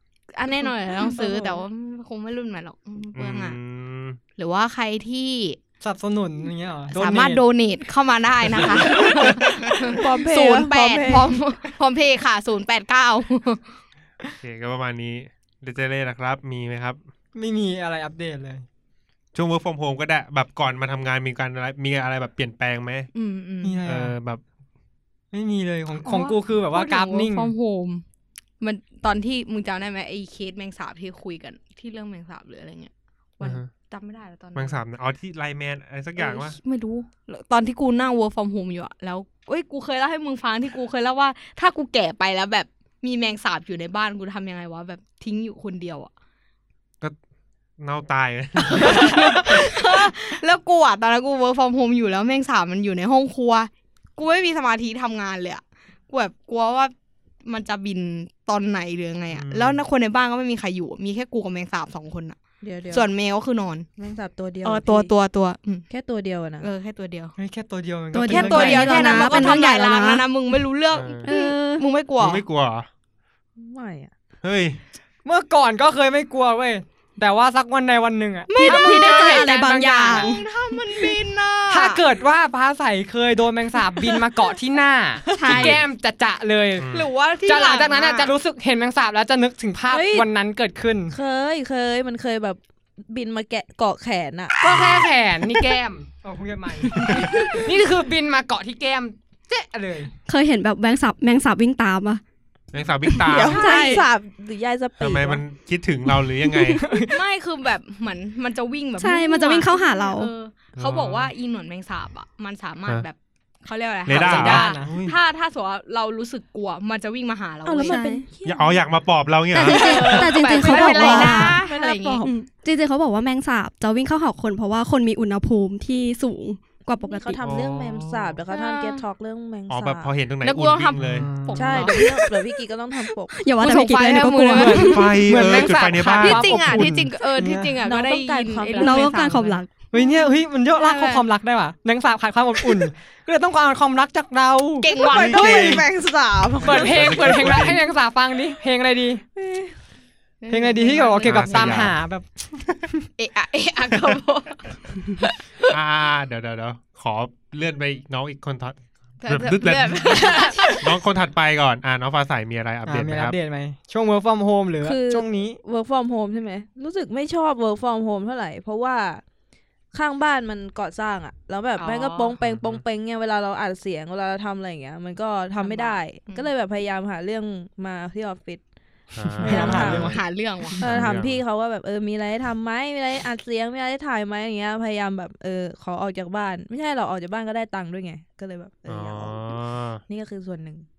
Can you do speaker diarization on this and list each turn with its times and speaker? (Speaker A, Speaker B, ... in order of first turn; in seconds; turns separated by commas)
Speaker A: 0.3-3.6, Speaker B: 1.0-1.6, Speaker C: 3.1-4.2, Speaker A: 4.4-5.6, Speaker D: 5.8-7.4, Speaker A: 6.9-13.8, Speaker D: 8.6-9.2, Speaker C: 8.9-9.5, Speaker B: 9.8-11.4, Speaker C: 14.4-17.0, Speaker D: 17.4-18.6, Speaker C: 19.4-23.1, Speaker A: 23.1-23.8, Speaker D: 23.6-24.2, Speaker C: 23.9-24.4, Speaker D: 25.3-27.5, Speaker A: 26.0-28.0, Speaker A: 28.6-34.8, Speaker C: 33.4-33.7, Speaker C: 34.5-36.6, Speaker A: 36.2-46.1, Speaker C: 47.8-49.7, Speaker A: 48.7-56.9, Speaker A: 57.5-62.4, Speaker C: 59.3-59.8, Speaker B: 62.6-63.1, Speaker A: 62.9-63.9, Speaker B: 64.0-65.1, Speaker A: 64.6-65.9, Speaker B: 65.9-66.7, Speaker A: 66.6-67.3, Speaker D: 67.4-69.5, Speaker E: 68.1-70.2, Speaker A: 68.3-72.5, Speaker B: 68.6-69.2, Speaker C: 70.9-71.2, Speaker E: 71.2-71.8, Speaker C: 72.2-72.9, Speaker B: 73.6-74.1, Speaker C: 74.4-74.8, Speaker D: 75.2-80.3, Speaker A: 78.5-79.5, Speaker E: 78.5-80.5, Speaker A: 80.1-82.0, Speaker D: 81.7-86.9, Speaker A: 85.3-85.8, Speaker C: 85.5-85.8, Speaker C: 86.8-87.1, Speaker A: 86.9-88.3, Speaker D: 87.5-91.2, Speaker B: 89.9-90.3, Speaker B: 91.1-94.6, Speaker D: 94.6-100.1, Speaker C: 94.7-95.1, Speaker C: 97.1-97.5, Speaker E: 100.3-102.2, Speaker C: 102.7-104.0, Speaker B: 103.2-105.4, Speaker E: 103.3-104.0, Speaker A: 103.5-104.0, Speaker C: 105.0-106.8, Speaker E: 106.5-106.8, Speaker D: 106.8-107.2, Speaker A: 107.0-118.0, Speaker E: 109.0-110.3, Speaker C: 110.8-111.3, Speaker C: 114.1-115.2, Speaker D: 114.1-114.9, Speaker B: 117.7-118.8, Speaker E: 117.8-118.3, Speaker C: 118.5-120.5, Speaker E: 119.5-121.6, Speaker A: 119.5-122.3, Speaker D: 120.6-121.5, Speaker B: 120.7-122.3, Speaker E: 122.2-127.4, Speaker B: 127.0-130.1, Speaker C: 127.4-128.2, Speaker A: 128.5-129.0, Speaker C: 129.7-131.3, Speaker A: 130.4-132.4, Speaker D: 131.0-132.0, Speaker B: 131.6-133.3, Speaker E: 133.3-135.2, Speaker A: 133.6-140.1, Speaker D: 134.5-137.8, Speaker C: 134.8-137.1, Speaker B: 137.8-139.2, Speaker E: 138.7-139.7, Speaker D: 139.9-144.9, Speaker A: 140.8-141.3, Speaker A: 144.8-145.8, Speaker C: 145.1-145.9, Speaker B: 145.1-147.6, Speaker D: 146.6-149.2, Speaker C: 146.6-147.9, Speaker B: 149.4-149.8, Speaker A: 150.4-151.9, Speaker D: 150.5-153.1, Speaker C: 151.2-152.0, Speaker A: 153.2-155.7, Speaker C: 155.7-163.4, Speaker A: 159.2-160.9, Speaker D: 162.9-165.6, Speaker B: 164.8-169.2, Speaker B: 169.9-178.6, Speaker A: 171.8-172.3, Speaker C: 172.4-172.8, Speaker A: 175.6-176.5, Speaker C: 179.1-180.2, Speaker D: 179.2-180.2, Speaker B: 179.3-180.2, Speaker A: 179.4-180.8, Speaker C: 180.8-181.4, Speaker B: 180.8-190.9, Speaker C: 188.9-190.0